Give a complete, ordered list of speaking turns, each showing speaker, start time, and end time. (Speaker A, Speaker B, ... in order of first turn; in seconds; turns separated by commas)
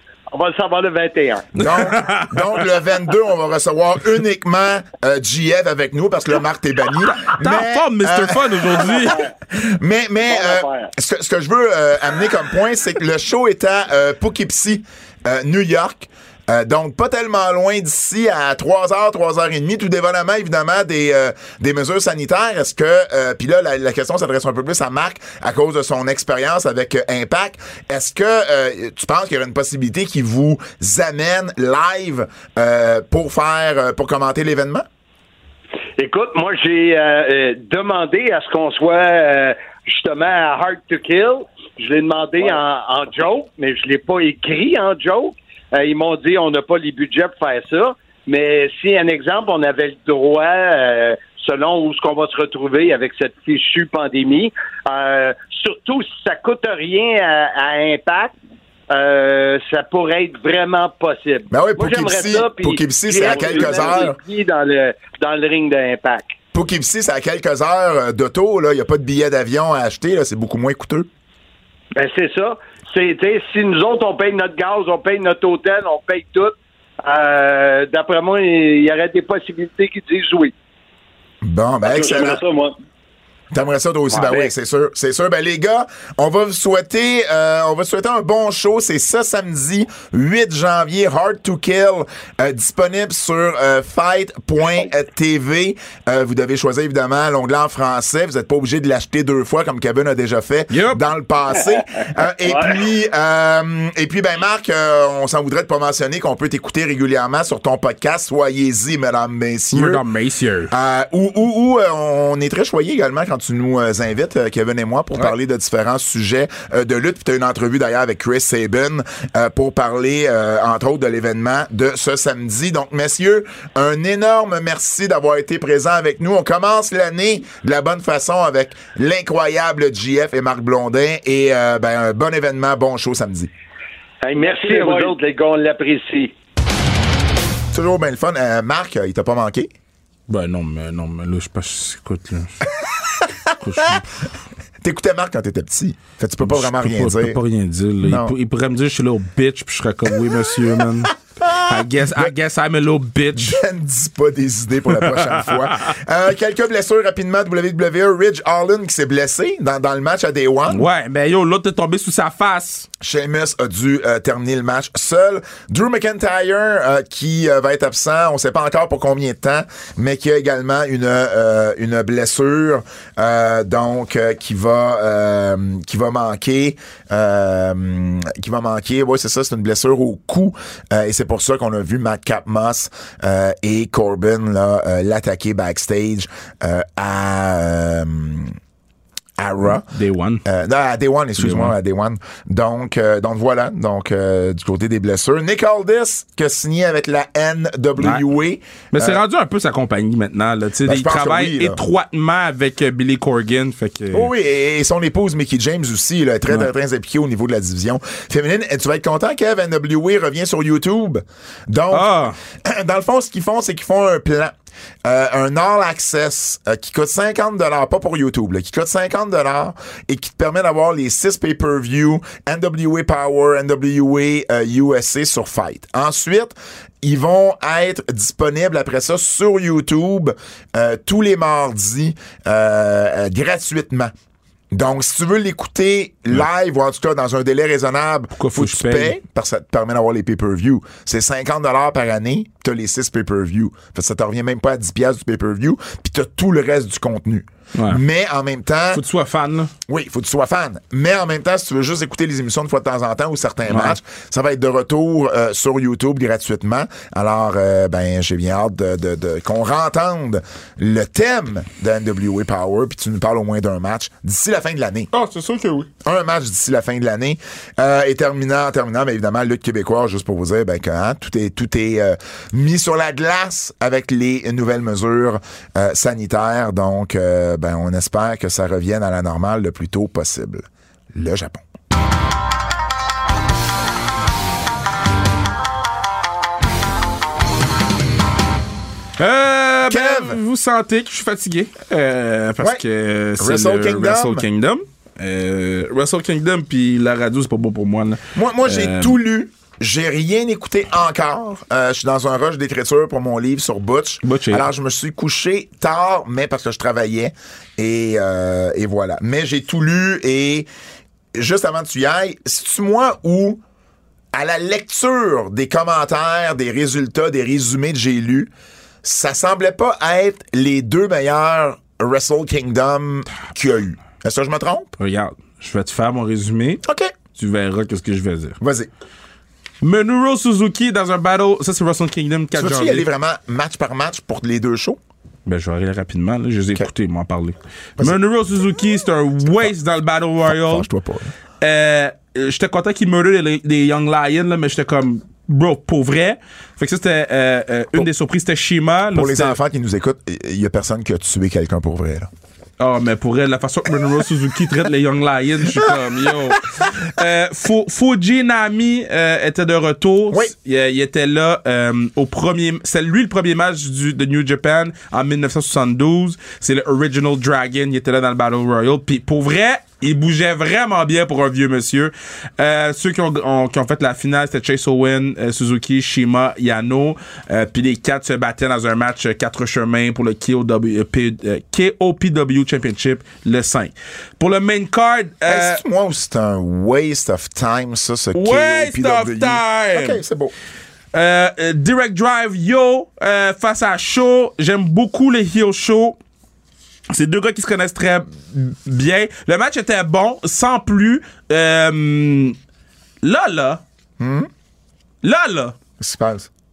Speaker A: 0.3-1.5, Speaker B: 1.6-2.6, Speaker C: 1.6-34.8, Speaker B: 7.3-9.2, Speaker D: 10.3-10.9, Speaker A: 36.0-58.3, Speaker A: 58.9-66.3, Speaker C: 61.5-64.2, Speaker D: 63.3-63.9, Speaker C: 66.5-71.1, Speaker A: 72.0-80.5, Speaker C: 81.4-82.4, Speaker D: 81.9-82.7, Speaker C: 83.5-110.0, Speaker A: 84.1-84.4, Speaker B: 100.7-101.0, Speaker D: 102.5-102.7, Speaker B: 109.7-110.7, Speaker C: 110.7-133.5, Speaker A: 134.2-136.3, Speaker D: 134.3-135.1, Speaker C: 137.7-139.7, Speaker B: 140.3-142.7, Speaker B: 143.6-144.1, Speaker C: 144.8-147.4, Speaker B: 146.4-153.6, Speaker C: 148.0-148.3, Speaker C: 151.0-152.3, Speaker C: 153.4-160.8, Speaker B: 160.7-162.9, Speaker C: 163.0-188.6, Speaker C: 189.4-189.8, Speaker B: 189.8-190.4, Speaker C: 190.4-199.2, Speaker B: 191.4-191.7, Speaker B: 198.9-204.3, Speaker C: 200.8-201.8, Speaker C: 204.1-214.5, Speaker B: 211.9-212.3, Speaker C: 215.0-234.1, Speaker C: 234.7-249.0, Speaker B: 238.4-239.1, Speaker B: 247.7-248.0, Speaker B: 248.9-249.7, Speaker C: 249.9-265.1, Speaker B: 253.7-254.0, Speaker B: 265.1-265.9, Speaker C: 266.0-281.6, Speaker B: 289.2-299.2, Speaker C: 289.9-290.4, Speaker C: 293.4-294.4, Speaker C: 298.3-310.7, Speaker B: 304.2-304.6, Speaker C: 311.4-313.6, Speaker C: 314.3-318.5, Speaker C: 319.0-324.9, Speaker B: 325.0-326.8, Speaker C: 326.8-327.1, Speaker B: 327.3-328.6, Speaker C: 328.6-328.9, Speaker B: 329.8-333.1, Speaker C: 332.6-335.0, Speaker B: 335.4-340.9, Speaker C: 340.4-341.3, Speaker B: 341.6-349.6, Speaker C: 349.1-352.3, Speaker B: 352.8-385.8, Speaker C: 385.5-390.5, Speaker B: 388.3-390.2, Speaker B: 391.1-396.2, Speaker B: 397.1-402.6, Speaker B: 403.2-403.8, Speaker C: 404.2-404.5, Speaker B: 405.2-405.8, Speaker C: 406.0-406.5